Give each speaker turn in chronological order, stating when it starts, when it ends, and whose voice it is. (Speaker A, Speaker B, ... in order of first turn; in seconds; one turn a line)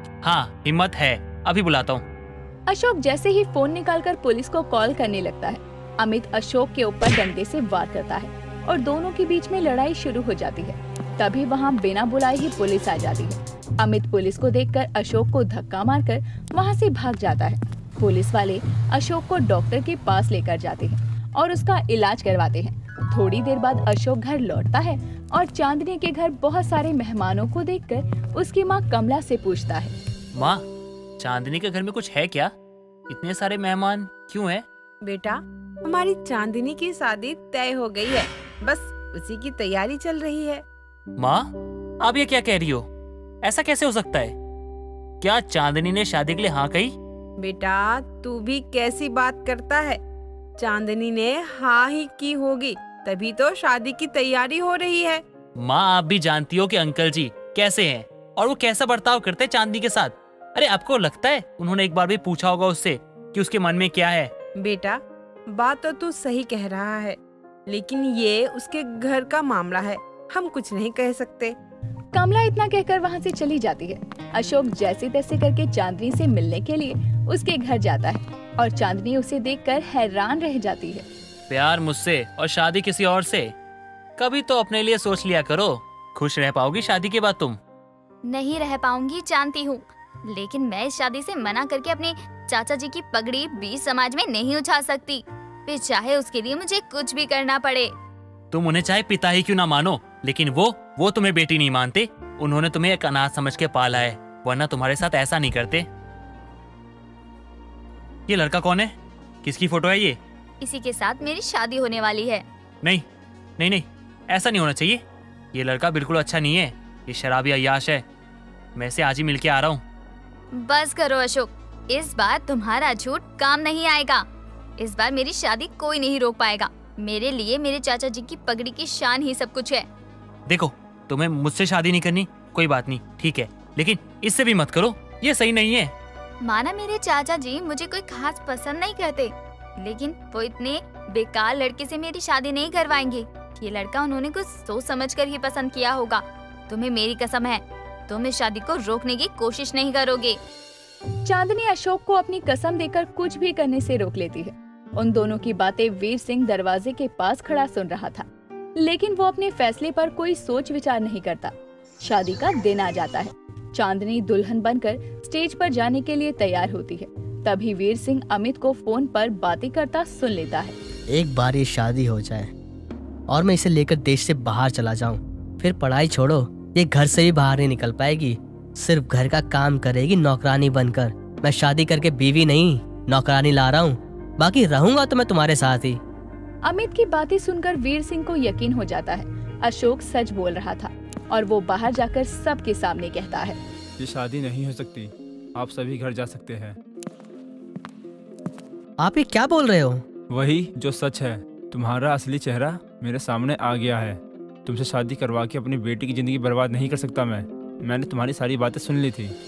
Speaker A: 0.2-2.0
Speaker B: 2.7-29.9
Speaker A: 30.4-30.6
Speaker A: 31.2-32.5
Speaker A: 33.1-34.6
Speaker C: 35.0-40.6
Speaker A: 41.2-41.5
Speaker A: 42.0-42.9
Speaker A: 43.4-44.3
Speaker A: 45.2-46.9
Speaker C: 47.4-50.0
Speaker C: 50.6-55.2
Speaker A: 55.6-64.3
Speaker C: 64.6-65.0
Speaker C: 65.5-71.5
Speaker B: 72.1-81.0
Speaker A: 81.5-83.5
Speaker A: 84.2-87.6
Speaker D: 88.3-97.9
Speaker A: 98.5-105.9
Speaker A: 108.3-108.9
Speaker A: 109.4-110.2
Speaker D: 110.6-112.4
Speaker A: 113.6-115.0
Speaker A: 115.5-118.0
Speaker A: 118.8-119.8
Speaker D: 120.5-124.2
Speaker D: 124.8-129.9
Speaker A: 130.5-135.9
Speaker D: 136.4-150.4
Speaker B: 151.2-170.7
Speaker E: 171.1-172.5
Speaker E: 173.3-186.0
Speaker B: 186.6-193.6
Speaker F: 194.0-196.8
Speaker E: 199.0-200.0
Speaker F: 200.3-209.3